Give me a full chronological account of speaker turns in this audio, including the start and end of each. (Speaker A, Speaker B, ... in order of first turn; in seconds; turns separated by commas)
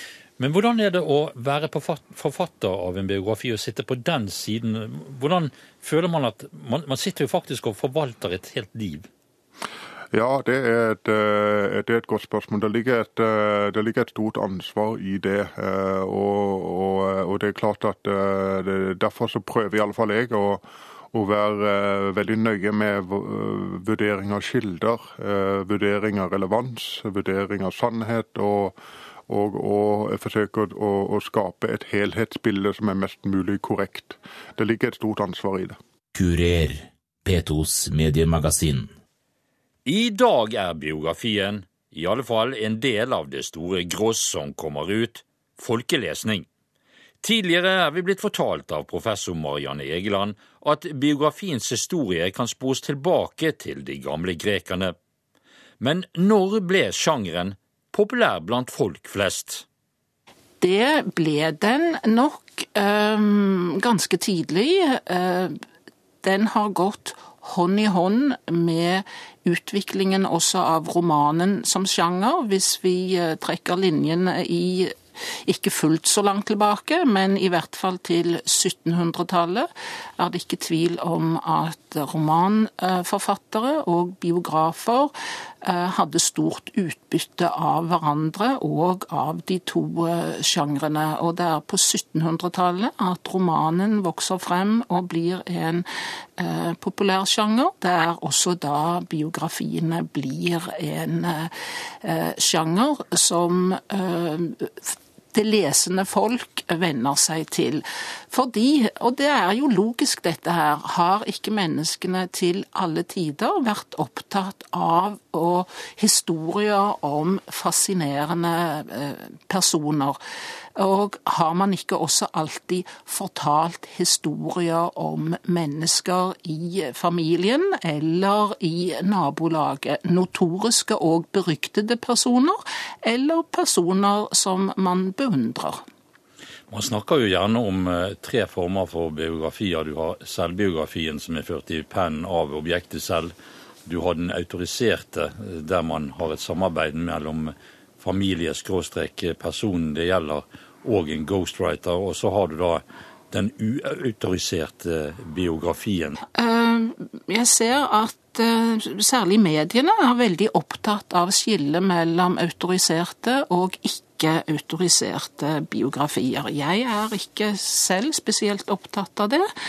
Speaker A: 0.4-9.1, Speaker B: 10.1-35.8, Speaker C: 36.1-38.9, Speaker D: 39.8-46.5, Speaker D: 47.2-55.0, Speaker D: 55.8-59.6, Speaker E: 60.6-65.5, Speaker E: 66.2-85.1, Speaker E: 85.6-95.9, Speaker E: 96.4-120.2, Speaker E: 120.8-135.8, Speaker A: 136.7-143.3, Speaker A: 143.8-156.2, Speaker E: 156.3-169.5